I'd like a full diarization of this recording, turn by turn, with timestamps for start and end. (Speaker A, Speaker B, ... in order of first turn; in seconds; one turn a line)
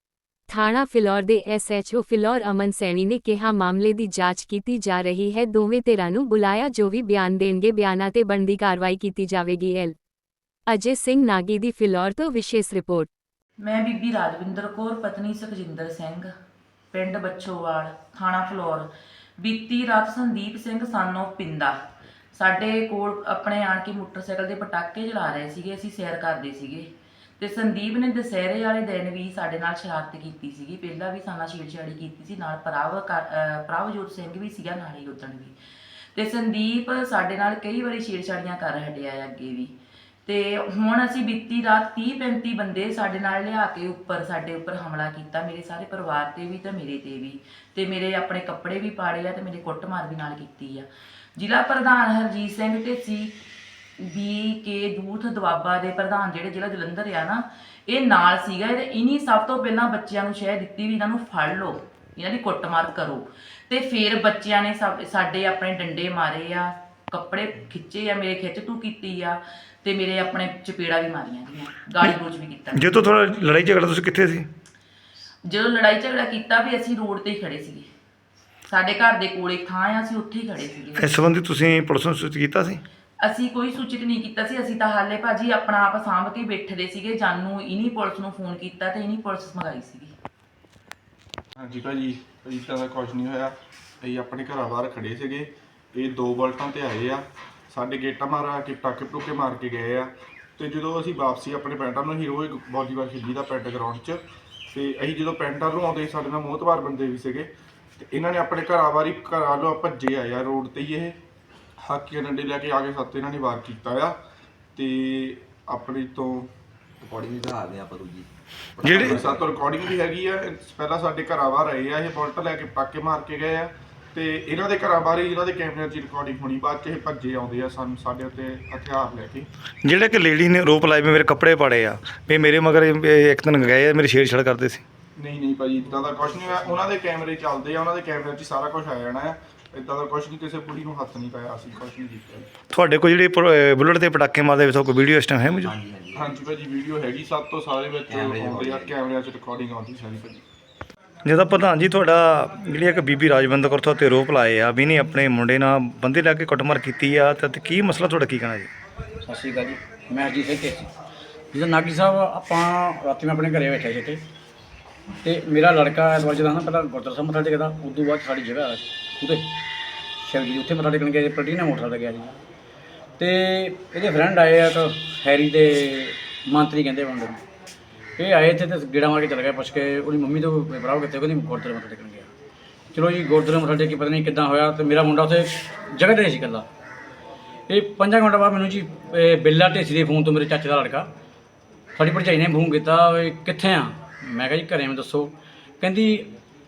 Speaker A: 0.5-9.9
Speaker A: 10.7-13.1
Speaker B: 13.6-16.3
Speaker B: 16.9-21.7
Speaker B: 22.3-35.5
Speaker B: 36.1-39.7
Speaker B: 40.2-53.3
Speaker B: 54.0-73.0
Speaker C: 72.7-74.5
Speaker B: 75.5-77.9
Speaker B: 78.7-81.1
Speaker C: 81.0-82.8
Speaker B: 83.2-90.1
Speaker D: 91.6-111.2
Speaker D: 111.8-114.2
Speaker D: 114.7-116.5
Speaker E: 117.0-119.4
Speaker C: 118.8-119.2
Speaker D: 119.0-129.5
Speaker C: 129.8-134.8
Speaker D: 135.2-142.5
Speaker C: 142.7-145.7
Speaker E: 145.7-146.2
Speaker D: 146.1-150.4
Speaker E: 148.1-148.9
Speaker C: 151.2-158.7
Speaker F: 159.2-160.9
Speaker F: 161.5-164.2
Speaker F: 165.2-169.5
Speaker F: 170.2-172.3
Speaker F: 173.2-177.4
Speaker F: 178.2-182.3
Speaker F: 182.9-186.7
Speaker F: 187.7-191.1
Speaker F: 191.9-196.3